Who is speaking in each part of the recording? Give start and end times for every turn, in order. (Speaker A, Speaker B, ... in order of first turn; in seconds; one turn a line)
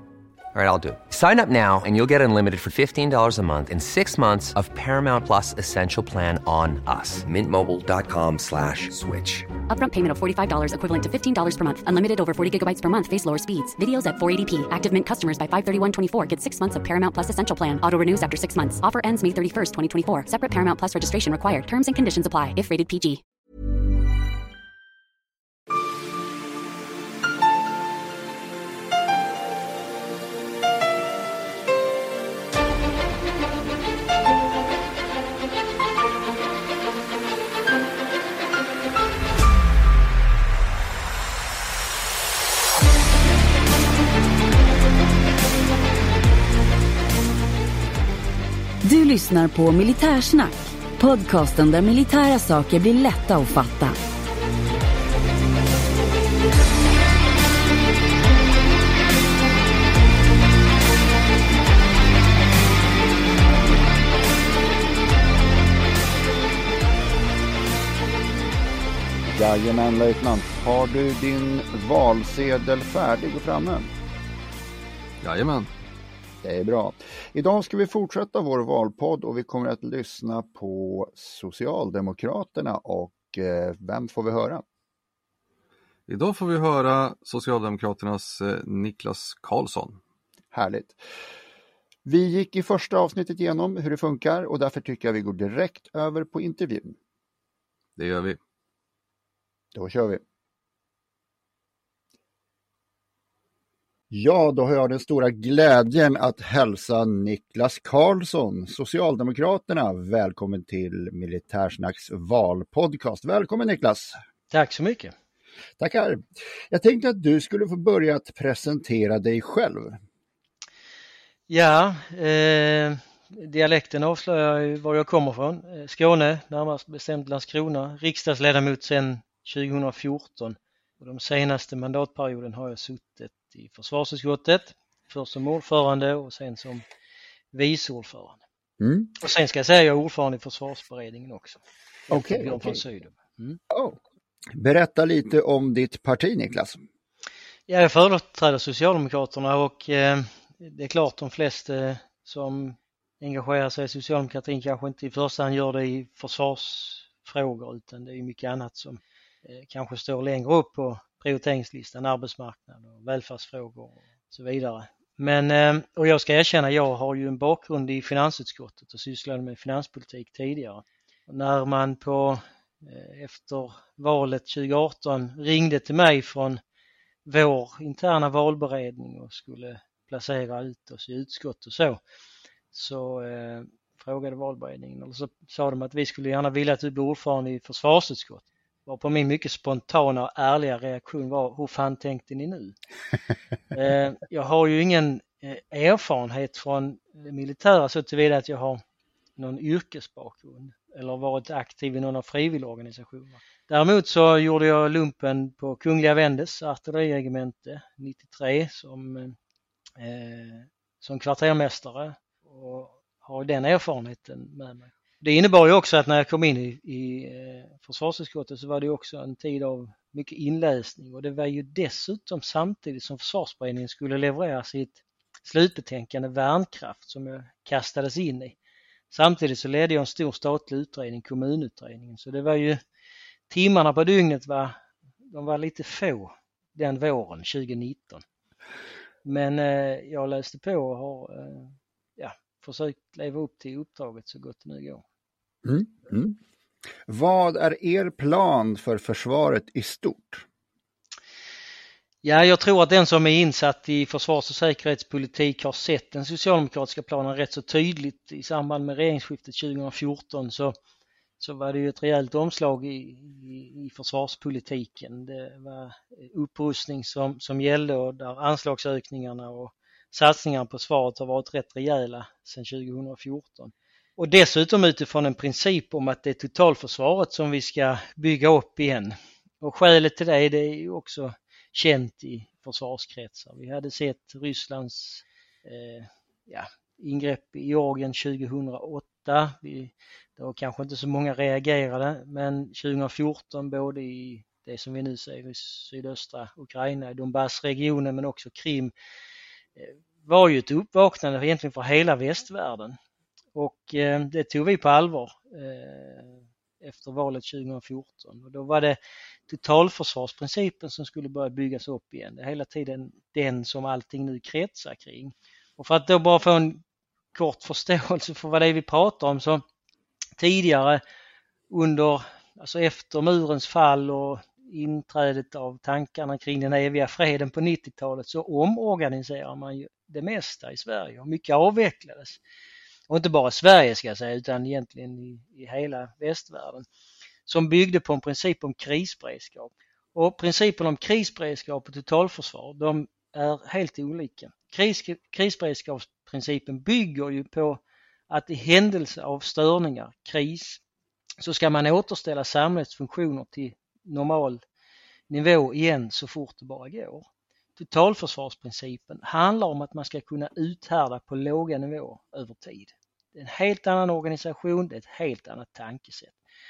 Speaker A: 0.5-9.5
Speaker B: 9.7-23.2
Speaker C: 48.8-54.0
Speaker D: 69.3-73.9
Speaker E: 75.2-75.7
Speaker D: 76.4-84.6
Speaker E: 86.1-90.0
Speaker D: 90.5-91.0
Speaker D: 92.0-97.0
Speaker E: 98.0-98.4
Speaker D: 99.7-100.2
Speaker D: 104.1-114.2
Speaker F: 114.5-115.1
Speaker D: 115.8-120.0
Speaker F: 121.5-136.8
Speaker F: 137.5-138.4
Speaker D: 138.8-139.1
Speaker F: 139.2-143.6
Speaker D: 142.1-142.8
Speaker D: 143.7-144.0
Speaker D: 144.5-146.8
Speaker F: 147.7-176.6
Speaker F: 177.2-182.0
Speaker F: 182.7-192.8
Speaker F: 193.7-198.8
Speaker F: 199.4-209.3
Speaker F: 210.0-228.6
Speaker F: 229.1-232.8
Speaker F: 233.5-238.2
Speaker F: 239.2-245.0
Speaker D: 245.6-246.4
Speaker D: 247.1-250.4
Speaker F: 252.2-260.7
Speaker F: 261.4-298.9
Speaker F: 299.8-303.0
Speaker F: 303.5-316.8
Speaker F: 317.3-319.6
Speaker F: 320.4-321.0
Speaker F: 321.7-332.4
Speaker F: 333.1-336.9
Speaker F: 337.5-350.8
Speaker F: 351.4-354.6
Speaker F: 355.3-366.4